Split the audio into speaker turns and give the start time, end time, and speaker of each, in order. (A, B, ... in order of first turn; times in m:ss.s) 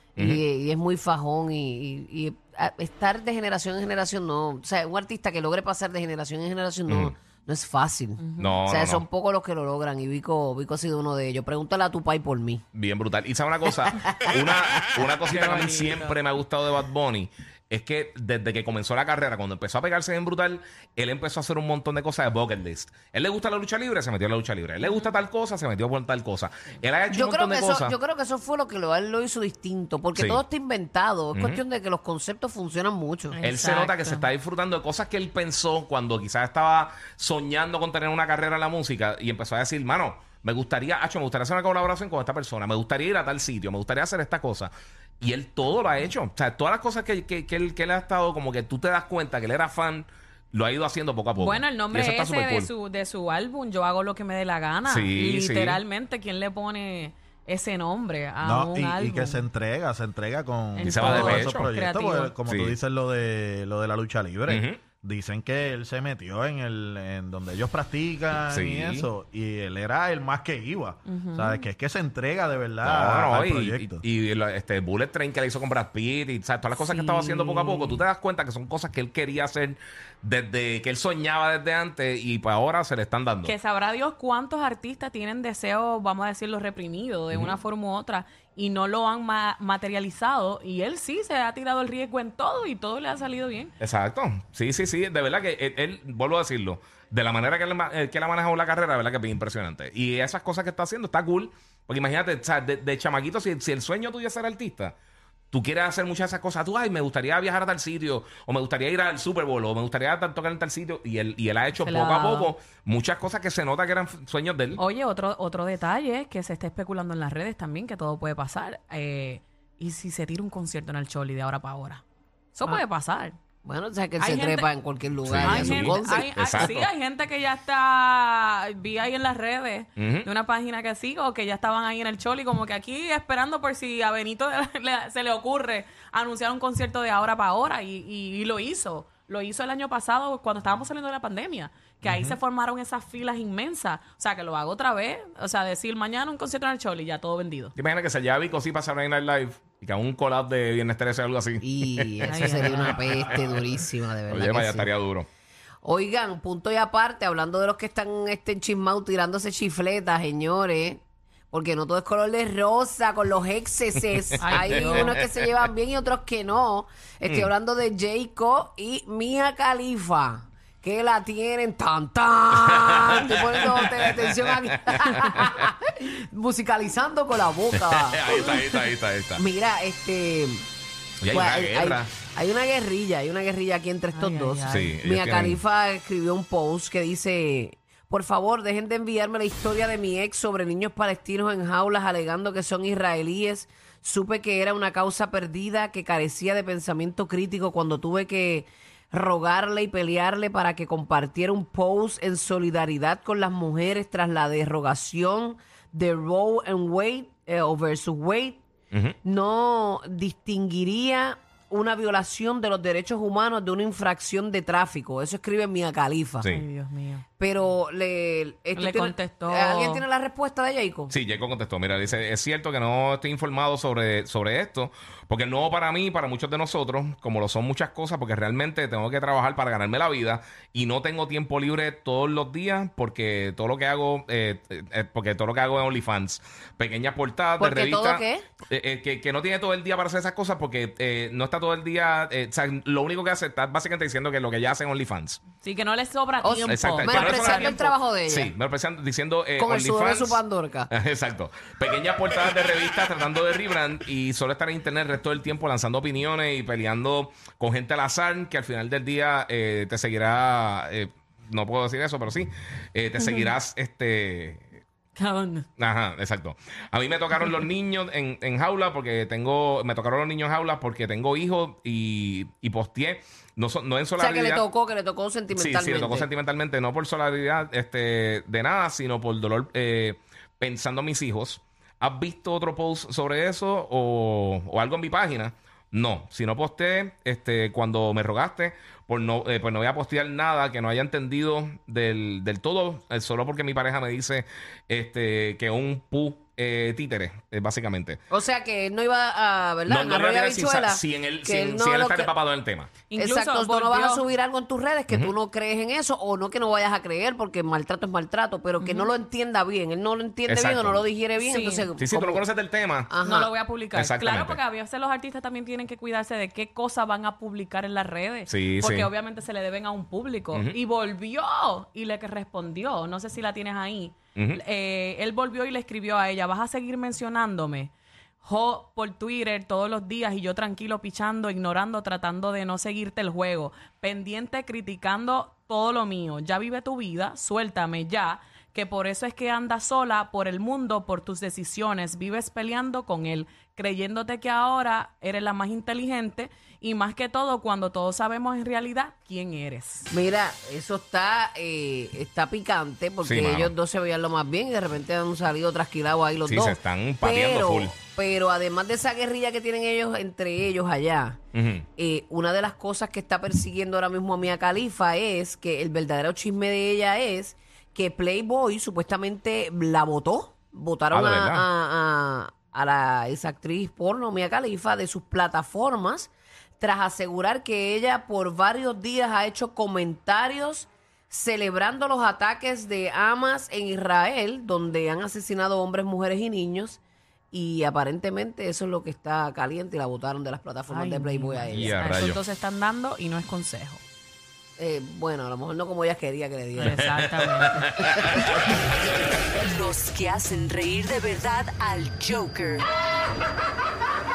0:00.2-0:00.4 A
0:00.2-0:12.6 B
0:06.9-0:07.2 A
0:08.2-0:08.6 C
0:08.4-0:09.0 A
0:12.7-0:27.9 A
0:15.3-0:16.2 C
0:24.8-0:25.1 C
0:27.1-0:33.4 B
0:30.2-0:30.4 A
0:31.3-0:31.6 A
0:33.3-0:34.3 C
0:33.4-0:52.7 A
0:51.4-0:59.4 C
0:54.9-0:55.8 A
0:58.4-1:14.0 D
1:00.8-1:02.4 C
1:00.8-1:01.7 A
1:02.5-1:02.8 A
1:04.5-1:04.8 A
1:08.3-1:09.1 A
1:11.1-1:11.7 C
1:12.8-1:23.5 A
1:16.8-1:18.0 C
1:23.4-1:33.7 C
1:33.8-1:44.9 A
1:45.5-1:54.8 A
1:51.8-1:52.5 C
1:54.8-2:02.0 C
2:02.6-2:03.4 C
2:03.6-2:06.7 B
2:04.2-2:04.7 C
2:05.2-2:06.9 A
2:05.4-2:27.7 C
2:10.0-2:10.3 A
2:22.0-2:22.4 D
2:27.8-2:33.6 A
2:31.6-2:34.9 B
2:32.3-2:33.1 C
2:34.3-2:35.3 A
2:35.8-2:58.8 B
2:44.4-2:45.2 C
2:44.5-2:45.2 A
2:52.6-2:55.6 A
2:57.8-2:59.4 A
2:59.4-3:00.6 B
3:01.2-3:02.1 A
3:01.3-3:28.6 B
3:04.1-3:04.9 C
3:04.7-3:05.6 A
3:29.2-3:36.5 B
3:36.4-3:37.2 C
3:37.4-3:41.1 B
3:38.8-3:40.0 C
3:41.1-4:05.4 A
3:57.6-3:58.5 B
4:05.6-4:07.9 C
4:06.4-4:08.5 B
4:06.7-4:24.7 A
4:09.6-4:10.9 B
4:23.2-4:23.5 C
4:25.2-4:25.7 C
4:25.8-4:34.6 A
4:34.2-4:36.3 B
4:35.5-4:58.2 A
4:58.3-5:02.3 B
4:59.9-5:02.9 A
5:03.1-5:04.2 C
5:03.2-5:12.4 B
5:08.8-5:09.1 C
5:10.5-5:11.0 A
5:11.4-5:11.9 C
5:12.0-5:13.1 A
5:13.1-5:13.5 B
5:13.2-5:27.9 C
5:13.9-5:14.6 A
5:18.5-5:19.1 A
5:28.4-5:50.1 C
5:50.1-6:01.4 B
5:53.2-5:53.7 A
5:56.5-5:58.0 A
6:01.5-6:01.9 A
6:02.0-6:27.0 B
6:11.1-6:11.7 A
6:27.5-6:31.9 B
6:30.9-6:34.0 C
6:31.7-6:32.4 A
6:34.8-6:37.0 B
6:36.8-6:37.9 C
6:37.7-6:38.4 A
6:39.7-6:42.8 E